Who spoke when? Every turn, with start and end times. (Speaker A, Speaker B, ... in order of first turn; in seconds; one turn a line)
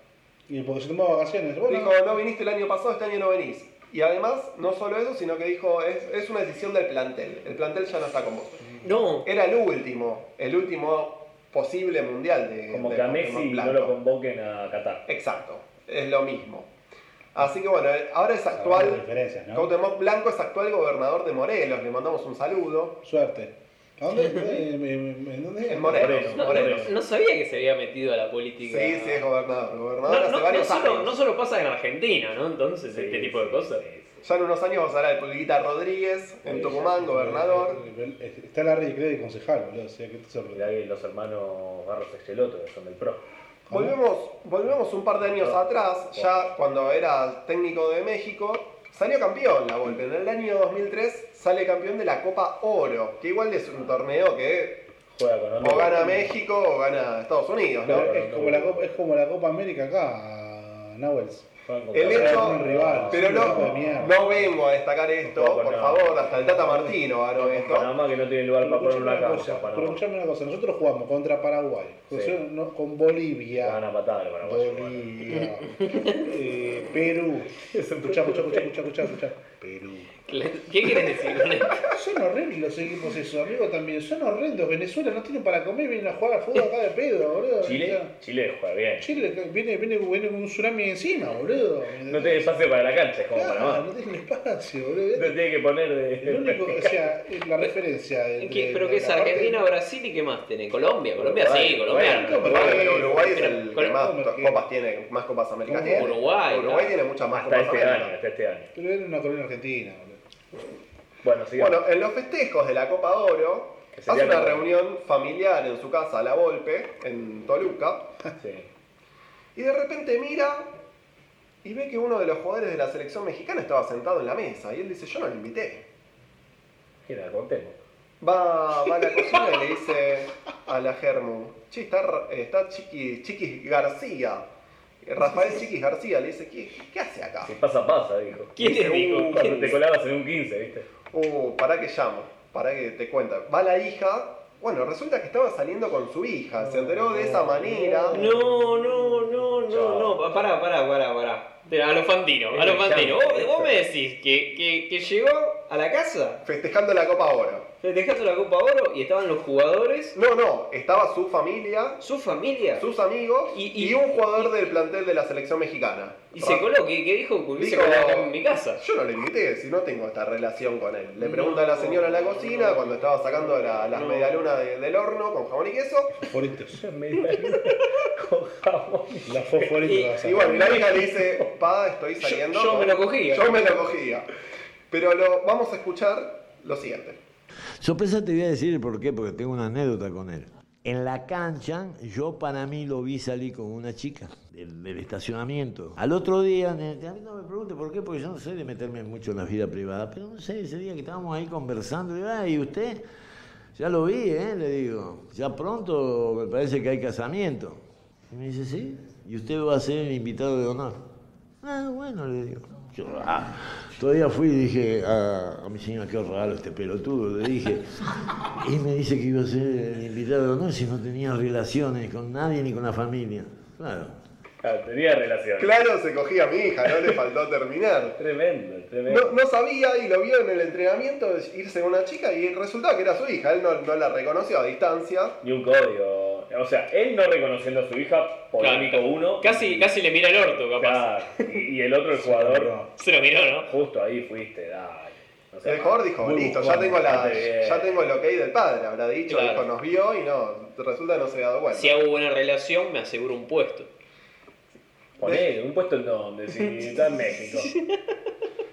Speaker A: 0.5-2.0
Speaker B: 1.7-8.6
Speaker C: 8.8-9.2
Speaker B: 9.2-13.9
Speaker D: 12.7-15.0
Speaker B: 15.1-16.7
Speaker B: 17.3-19.0
Speaker A: 18.5-19.7
Speaker B: 19.5-23.0
Speaker A: 23.0-26.4
Speaker C: 24.2-24.4
Speaker B: 25.7-26.9
Speaker D: 25.9-26.9
Speaker C: 26.4-29.2
Speaker B: 28.6-31.1
Speaker C: 30.1-33.8
Speaker D: 32.9-34.2
Speaker B: 34.2-37.8
Speaker A: 36.5-40.7
Speaker D: 40.5-43.2
Speaker A: 43.7-44.0
Speaker B: 43.7-54.9
Speaker D: 45.2-45.6
Speaker D: 46.1-46.5
Speaker D: 55.1-56.4
Speaker B: 55.6-58.1
Speaker D: 57.8-58.9
Speaker A: 57.8-61.5
Speaker D: 61.6-64.4
Speaker B: 61.9-67.9
Speaker A: 62.0-64.2
Speaker D: 65.2-66.5
Speaker A: 66.3-67.0
Speaker D: 67.3-70.0
Speaker A: 68.6-73.8
Speaker D: 72.1-72.4
Speaker D: 73.6-75.2
Speaker A: 74.4-80.1
Speaker D: 77.7-78.7
Speaker C: 80.3-81.8
Speaker A: 81.8-88.1
Speaker D: 87.6-89.2
Speaker A: 89.0-92.5
Speaker D: 92.1-93.8
Speaker A: 93.3-95.4
Speaker D: 95.1-97.0
Speaker A: 96.2-99.6
Speaker C: 98.4-104.0
Speaker D: 101.2-102.9
Speaker A: 102.0-104.6
Speaker B: 102.5-108.2
Speaker A: 105.7-106.1
Speaker C: 105.9-106.9
Speaker D: 107.3-108.7
Speaker A: 108.7-110.2
Speaker D: 111.2-111.8
Speaker B: 111.6-118.0
Speaker D: 113.9-114.7
Speaker D: 118.4-118.7
Speaker B: 119.5-120.7
Speaker B: 121.6-125.8
Speaker D: 127.0-127.8
Speaker B: 128.2-134.5
Speaker B: 135.0-137.6
Speaker D: 137.4-140.9
Speaker C: 138.6-139.8
Speaker B: 139.2-139.6
Speaker B: 141.1-148.2
Speaker D: 146.6-150.6
Speaker C: 148.1-156.4
Speaker D: 152.5-153.8
Speaker B: 156.4-157.7
Speaker C: 157.8-160.1
Speaker B: 160.1-162.0
Speaker C: 162.0-162.8
Speaker B: 162.8-166.7
Speaker C: 163.5-164.7
Speaker C: 166.3-168.8
Speaker B: 167.6-176.1
Speaker C: 171.2-172.6
Speaker D: 172.6-173.7
Speaker C: 173.9-174.4
Speaker A: 176.3-176.8
Speaker D: 176.7-179.7
Speaker A: 179.2-180.7
Speaker C: 179.8-181.0
Speaker B: 180.2-184.3
Speaker D: 180.6-181.5
Speaker C: 182.2-183.8
Speaker B: 184.9-187.2
Speaker E: 187.8-203.0
Speaker E: 203.7-211.0
Speaker E: 211.6-217.9
Speaker E: 218.5-224.2
Speaker D: 224.6-225.8
Speaker B: 225.6-228.2
Speaker D: 228.2-229.3
Speaker B: 229.1-235.3
Speaker D: 235.4-239.9
Speaker C: 238.6-241.4
Speaker D: 240.4-242.8
Speaker A: 242.2-242.9
Speaker C: 243.0-243.7
Speaker D: 243.6-248.1
Speaker B: 245.6-252.0
Speaker C: 249.3-249.6
Speaker C: 251.7-253.9
Speaker D: 255.2-257.7
Speaker B: 255.2-255.5
Speaker C: 256.6-257.0